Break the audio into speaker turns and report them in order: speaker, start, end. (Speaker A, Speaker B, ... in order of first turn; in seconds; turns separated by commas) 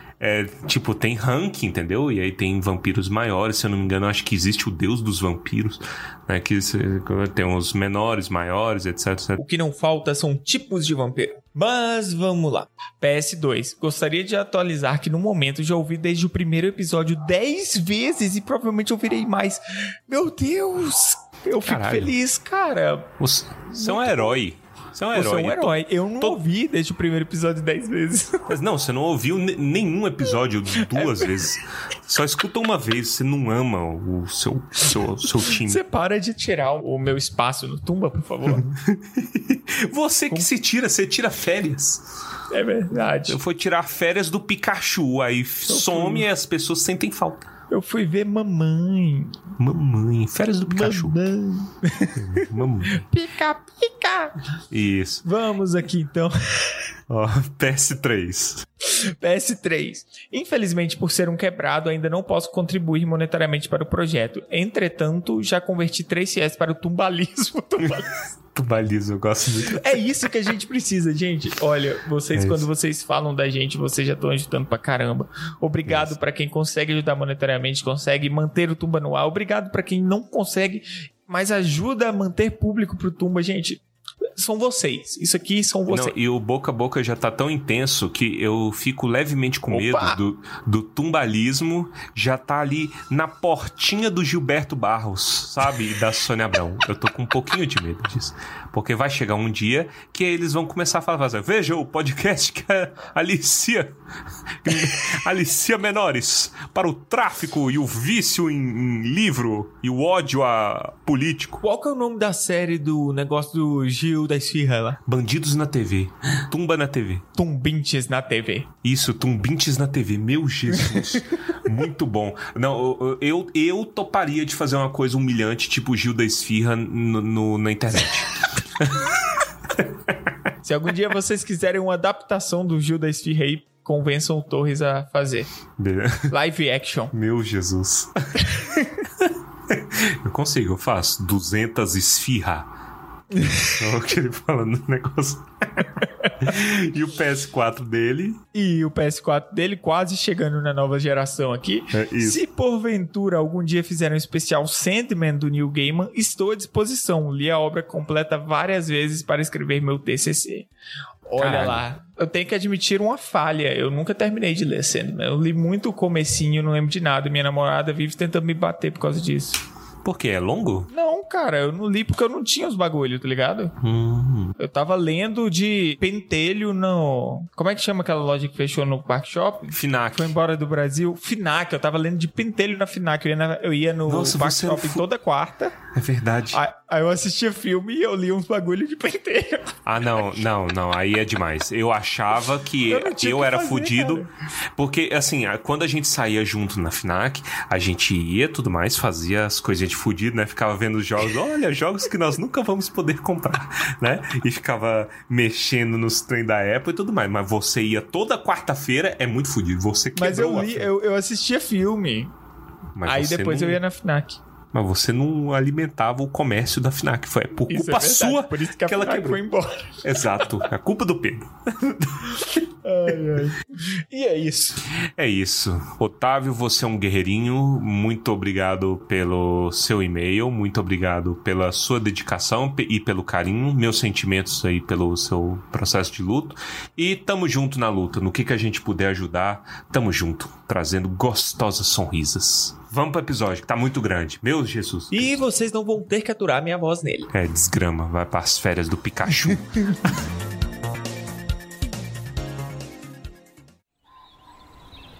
Speaker A: 0.2-9.4, Speaker B: 9.4-23.1, Speaker A: 21.6-22.1, Speaker A: 23.2-26.4, Speaker B: 23.7-24.4, Speaker B: 25.1-28.6, Speaker A: 28.5-35.8, Speaker B: 30.9-31.3, Speaker B: 35.6-38.7, Speaker A: 38.6-42.0, Speaker B: 42.5-43.4, Speaker A: 43.2-47.4, Speaker B: 45.7-46.2, Speaker B: 47.7-49.4, Speaker A: 49.6-51.1, Speaker B: 50.7-54.4, Speaker A: 52.2-53.0, Speaker A: 54.7-55.2, Speaker B: 55.2-56.3, Speaker A: 57.1-58.6, Speaker B: 59.2-68.2, Speaker A: 68.5-69.9, Speaker B: 69.7-83.8, Speaker A: 72.3-72.7, Speaker A: 75.9-76.1, Speaker B: 84.4-86.2, Speaker A: 85.9-103.9, Speaker B: 89.7-90.2, Speaker A: 104.6-111.6, Speaker B: 111.6-115.0, Speaker A: 115.0-117.2, Speaker B: 117.3-118.7, Speaker A: 118.8-129.0, Speaker B: 130.6-135.5, Speaker A: 135.8-136.3, Speaker B: 136.3-137.1, Speaker A: 137.1-138.5, Speaker A: 139.2-142.7, Speaker A: 143.8-145.8, Speaker A: 146.4-148.4, Speaker B: 148.5-160.7, Speaker A: 151.9-152.4, Speaker B: 161.2-169.6, Speaker A: 161.4-161.8, Speaker A: 170.0-170.9, Speaker B: 170.9-173.7, Speaker A: 173.8-174.5, Speaker B: 174.6-185.8, Speaker A: 179.7-180.3, Speaker A: 184.1-185.1, Speaker A: 185.9-186.6, Speaker B: 186.5-189.8, Speaker A: 189.8-194.2, Speaker B: 192.9-194.2, Speaker A: 194.8-210.9, Speaker B: 210.2-212.3, Speaker A: 212.9-213.8, Speaker B: 213.0-214.4, Speaker A: 214.7-219.4, Speaker B: 217.7-219.8, Speaker A: 220.0-222.2, Speaker B: 220.4-220.7, Speaker B: 222.8-224.8, Speaker A: 225.2-245.4, Speaker B: 245.1-247.3, Speaker A: 247.3-249.7